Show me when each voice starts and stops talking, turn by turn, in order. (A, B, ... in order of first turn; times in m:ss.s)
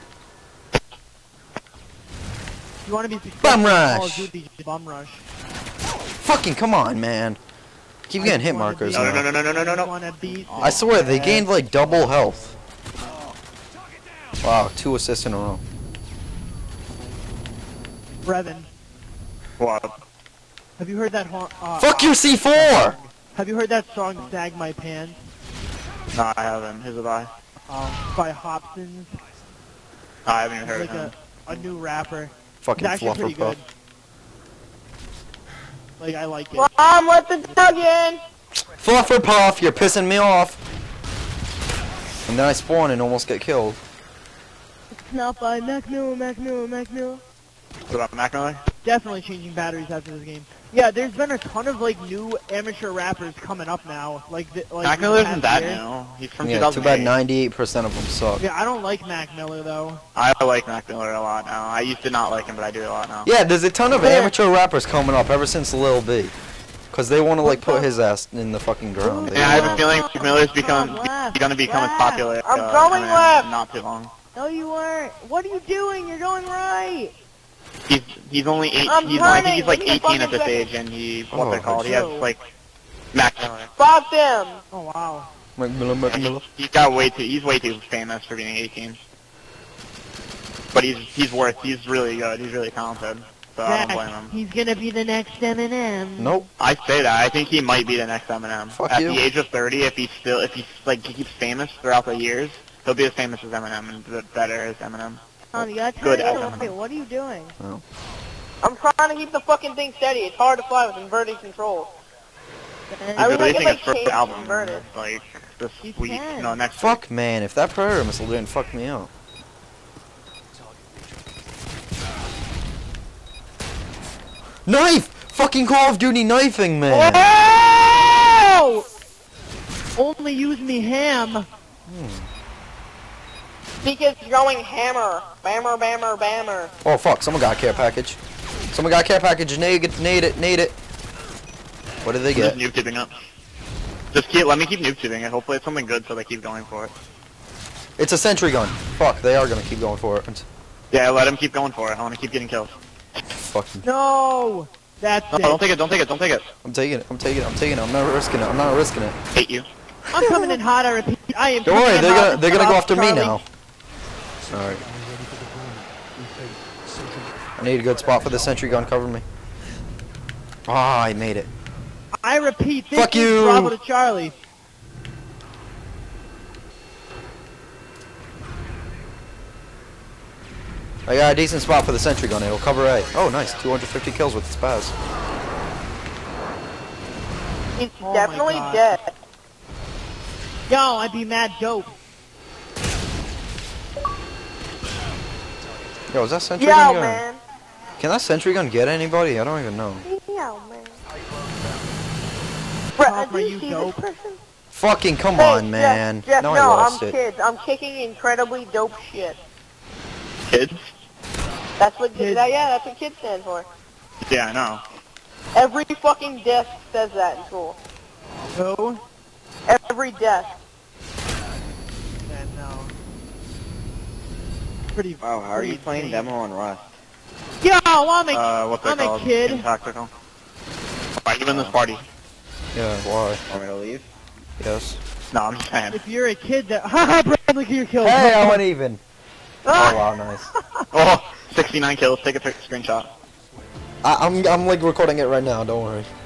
0:02.8-0:05.2 A
0:03.4-0:04.3 B
0:06.2-0:07.4 B
0:08.1-0:09.3 B
0:08.2-0:11.5 A
0:08.9-0:09.9 C
0:10.4-0:10.8 C
0:10.6-0:12.5 B
0:14.4-0:15.6 B
0:18.2-0:18.7 A
0:19.6-0:20.0 C
0:20.8-0:25.2 A
0:21.8-0:23.0 B
0:26.1-0:27.3 C
0:27.7-0:29.2 A
0:30.2-0:31.1 C
0:30.6-0:33.7 A
0:32.6-0:33.6 B
0:36.0-0:36.7 A
0:36.6-0:38.2 D
0:38.8-0:40.6 B
0:42.3-0:43.8 B
0:44.9-0:47.2 E
0:47.9-0:48.6 C
0:48.8-0:55.8 A
0:54.8-0:57.2 C
0:56.4-0:58.4 B
0:58.4-1:00.0 A
1:00.2-1:03.3 C
1:03.2-1:06.3 B
1:06.9-1:09.8 B
1:07.4-1:07.9 E
1:09.0-1:12.2 E
1:09.3-1:14.1 C
1:12.4-1:13.5 D
1:14.4-1:17.2 E
1:17.9-1:22.4 C
1:18.8-1:20.7 D
1:21.3-1:21.8 B
1:21.8-1:22.3 A
1:23.1-1:23.7 C
1:23.8-1:24.6 D
1:24.7-1:25.3 A
1:25.6-1:26.4 B
1:26.0-1:29.0 C
1:30.7-1:34.4 C
1:33.6-1:36.4 A
1:36.2-1:36.5 B
1:36.6-1:45.2 C
1:38.7-1:39.2 B
1:45.5-1:47.6 E
1:46.0-1:46.7 C
1:48.6-1:51.9 D
1:52.9-1:53.5 E
1:53.2-1:54.9 D
1:53.2-1:57.0 C
1:55.8-1:56.6 E
1:56.8-1:59.1 B
2:04.7-2:07.3 B
2:06.9-2:08.9 A
2:10.0-2:11.5 A
2:11.9-2:12.3 B
2:13.8-2:16.7 D
2:16.8-2:18.2 B
2:18.7-2:20.8 B
2:22.0-2:22.6 B
2:22.3-2:23.2 C
2:24.1-2:26.9 C
2:28.0-2:30.4 B
2:30.9-2:32.8 C
2:33.3-2:33.8 B
2:33.8-2:35.6 A
2:35.3-2:36.4 C
2:36.6-2:39.2 B
2:39.3-2:39.7 C
2:40.1-2:43.4 A
2:41.6-2:43.4 B
2:44.5-2:44.9 B
2:44.9-2:47.3 E
2:47.6-2:49.2 B
2:50.7-2:51.5 B
2:52.2-2:54.4 A
2:52.9-2:53.8 B
3:01.1-3:04.9 B
3:07.8-3:09.1 D
3:08.0-3:08.9 A
3:10.7-3:11.9 A
3:16.1-3:17.2 B
3:16.6-3:17.4 D
3:18.0-3:20.1 B
3:20.0-3:21.0 D
3:23.0-3:24.4 D
3:23.0-3:24.0 A
3:24.7-3:27.2 B
3:25.4-3:29.4 D
3:30.5-3:30.9 C
3:31.8-3:33.7 D
3:32.1-3:32.5 A
3:34.2-3:34.8 C
3:35.6-3:37.8 D
3:38.5-3:39.0 A
3:39.7-3:40.5 D
3:42.3-3:42.9 A
3:44.9-3:46.3 A
3:45.2-3:46.9 F
3:47.6-3:49.7 A
3:48.3-3:50.1 C
3:51.2-3:52.1 C
3:51.5-3:51.8 F
3:52.7-3:53.4 B
3:53.5-3:54.1 F
3:54.6-3:55.0 B
3:55.3-3:56.0 C
3:55.9-3:58.6 A
3:58.0-3:59.0 B
3:59.6-4:00.0 D
3:59.7-4:00.5 B
4:00.9-4:03.1 C
4:04.0-4:06.1 B